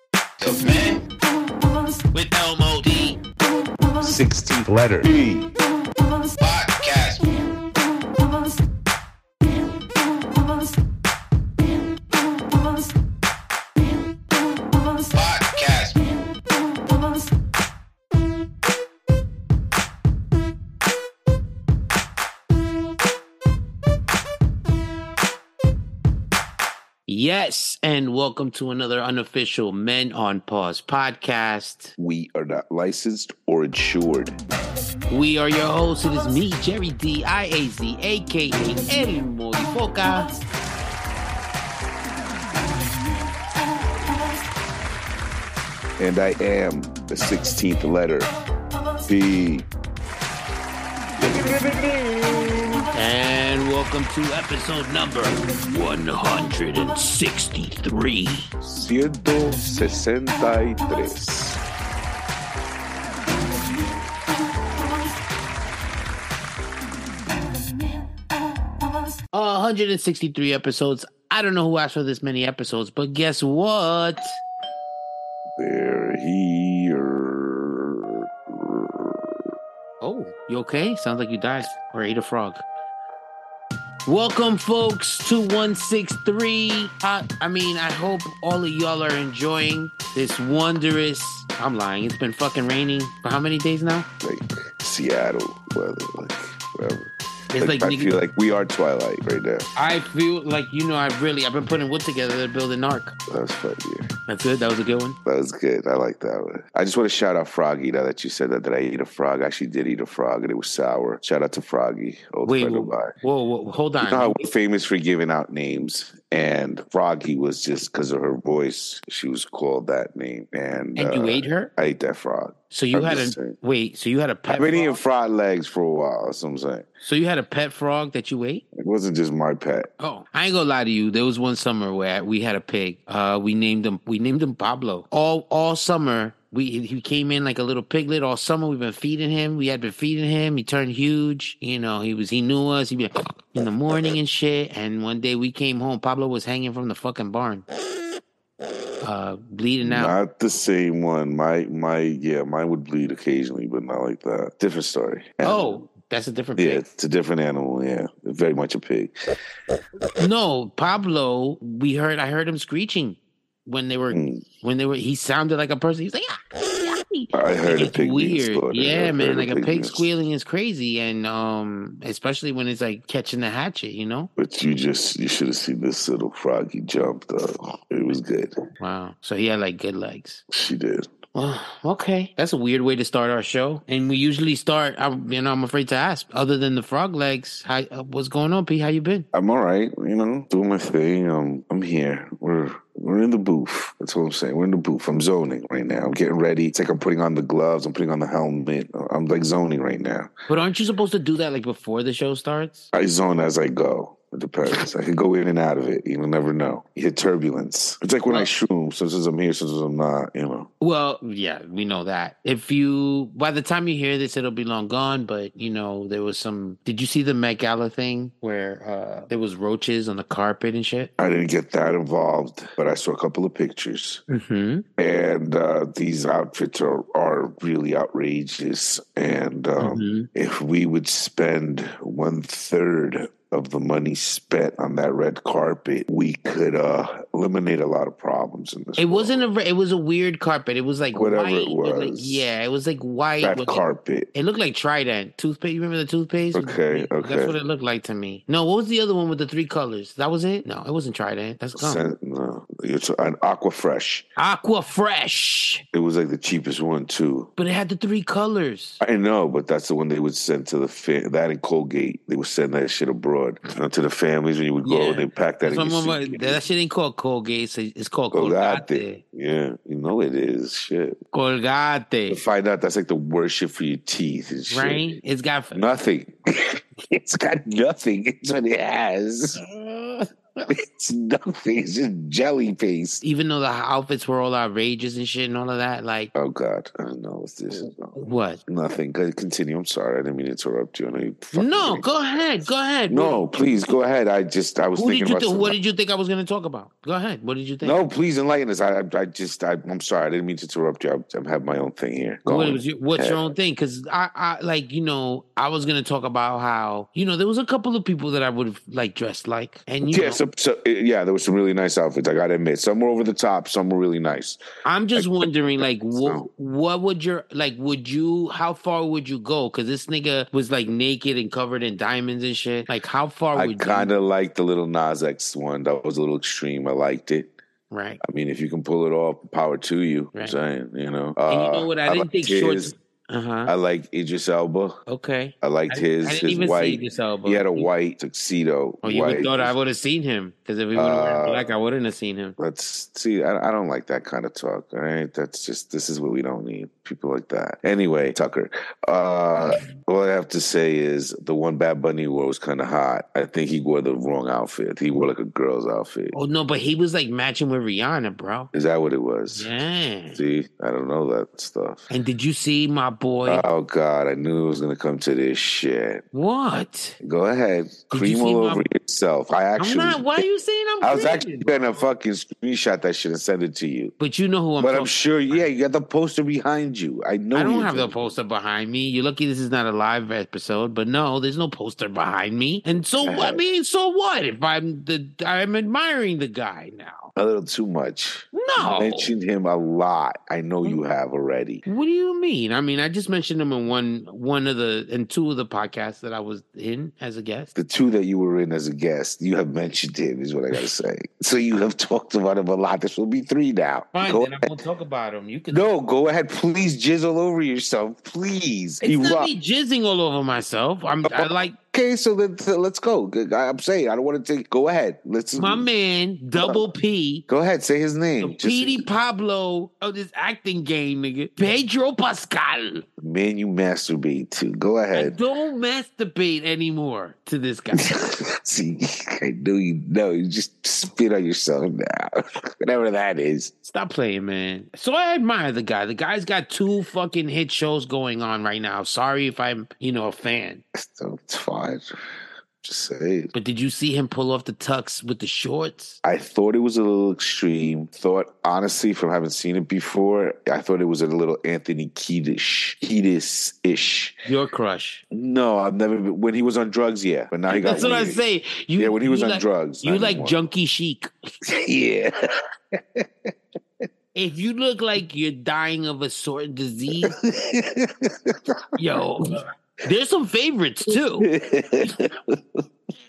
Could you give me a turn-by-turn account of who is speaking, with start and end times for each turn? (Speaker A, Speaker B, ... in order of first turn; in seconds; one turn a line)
Speaker A: 0.4-1.1
Speaker B: 2.1-3.2
Speaker C: 4.0-5.5
Speaker A: 6.4-7.3
Speaker A: 15.1-16.0
Speaker B: 27.1-31.9
Speaker C: 32.0-34.4
Speaker B: 35.1-40.4
Speaker C: 46.0-48.3
Speaker C: 49.0-49.7
Speaker C: 51.2-52.9
Speaker B: 52.9-58.5
Speaker C: 58.6-61.6
Speaker B: 69.3-74.4
Speaker C: 75.6-79.5
Speaker B: 80.0-82.7
Speaker B: 84.0-94.1
Speaker C: 94.2-99.7
Speaker B: 97.5-98.1
Speaker B: 99.8-103.1
Speaker C: 103.3-104.1
Speaker B: 104.3-105.2
Speaker C: 105.2-113.1
Speaker B: 112.5-114.5
Speaker C: 114.0-123.6
Speaker B: 121.0-121.7
Speaker B: 122.7-125.0
Speaker C: 124.5-126.9
Speaker B: 127.0-128.6
Speaker C: 128.8-129.9
Speaker B: 130.0-147.7
Speaker B: 149.0-150.2
Speaker C: 149.8-155.8
Speaker B: 155.4-156.8
Speaker C: 156.6-159.1
Speaker B: 160.2-174.3
Speaker C: 164.1-164.4
Speaker C: 167.3-170.0
Speaker C: 174.4-178.6
Speaker B: 178.8-180.4
Speaker C: 180.5-181.1
Speaker B: 181.3-189.3
Speaker C: 189.3-200.3
Speaker B: 200.5-202.9
Speaker C: 202.9-210.7
Speaker B: 210.8-221.1
Speaker C: 221.2-224.2
Speaker B: 224.3-224.8
Speaker C: 225.0-239.5
Speaker B: 229.8-230.3
Speaker B: 239.0-243.8
Speaker C: 241.1-242.5
Speaker C: 243.4-244.3
Speaker B: 244.3-252.0
Speaker C: 246.5-247.6
Speaker C: 251.7-254.3
Speaker B: 254.4-255.8
Speaker C: 255.9-257.5
Speaker B: 257.6-259.0
Speaker C: 259.0-266.6
Speaker B: 264.8-269.2
Speaker C: 268.3-271.2
Speaker B: 271.3-272.4
Speaker C: 272.3-275.1
Speaker B: 274.7-275.9
Speaker C: 275.8-279.6
Speaker B: 279.8-280.2
Speaker C: 280.7-283.2
Speaker B: 283.2-286.3
Speaker C: 286.3-292.1
Speaker B: 288.1-288.6
Speaker B: 291.5-293.4
Speaker C: 293.1-295.8
Speaker B: 294.9-298.0
Speaker C: 297.8-303.5
Speaker B: 302.5-310.4
Speaker C: 310.1-314.6
Speaker B: 314.8-324.1
Speaker C: 315.2-316.5
Speaker C: 323.5-327.5
Speaker B: 327.9-328.2
Speaker C: 328.2-332.9
Speaker B: 331.5-333.7
Speaker C: 333.7-335.0
Speaker B: 335.1-337.9
Speaker C: 335.6-339.8
Speaker B: 339.0-342.6
Speaker C: 340.9-341.7
Speaker C: 342.6-356.4
Speaker B: 356.3-358.7
Speaker C: 358.7-359.7
Speaker B: 359.5-360.4
Speaker C: 360.3-362.1
Speaker B: 362.1-363.7
Speaker C: 363.4-366.2
Speaker B: 366.3-367.2
Speaker C: 367.2-370.4
Speaker B: 368.1-368.9
Speaker B: 369.8-371.8
Speaker C: 371.0-374.1
Speaker B: 374.2-375.6
Speaker C: 374.8-378.3
Speaker B: 377.5-387.3
Speaker C: 383.2-383.6
Speaker C: 387.4-391.9
Speaker B: 388.5-389.3
Speaker B: 391.9-397.7
Speaker C: 397.8-404.7
Speaker B: 404.1-405.9
Speaker C: 405.7-409.5
Speaker B: 409.0-411.7
Speaker C: 411.3-415.9
Speaker B: 415.6-417.4
Speaker C: 416.6-416.9
Speaker C: 417.5-419.1
Speaker B: 418.4-423.1
Speaker C: 423.2-425.4
Speaker B: 425.1-428.4
Speaker C: 428.0-433.7
Speaker B: 433.8-440.8
Speaker C: 440.9-442.1
Speaker C: 442.8-443.5
Speaker B: 443.5-446.2
Speaker C: 446.2-454.4
Speaker B: 454.5-455.2
Speaker C: 455.3-458.4
Speaker B: 457.7-461.3
Speaker C: 459.0-460.6
Speaker C: 461.7-462.3
Speaker C: 462.9-463.2
Speaker B: 464.3-467.3
Speaker C: 467.2-468.6
Speaker B: 469.0-471.5
Speaker C: 471.1-472.8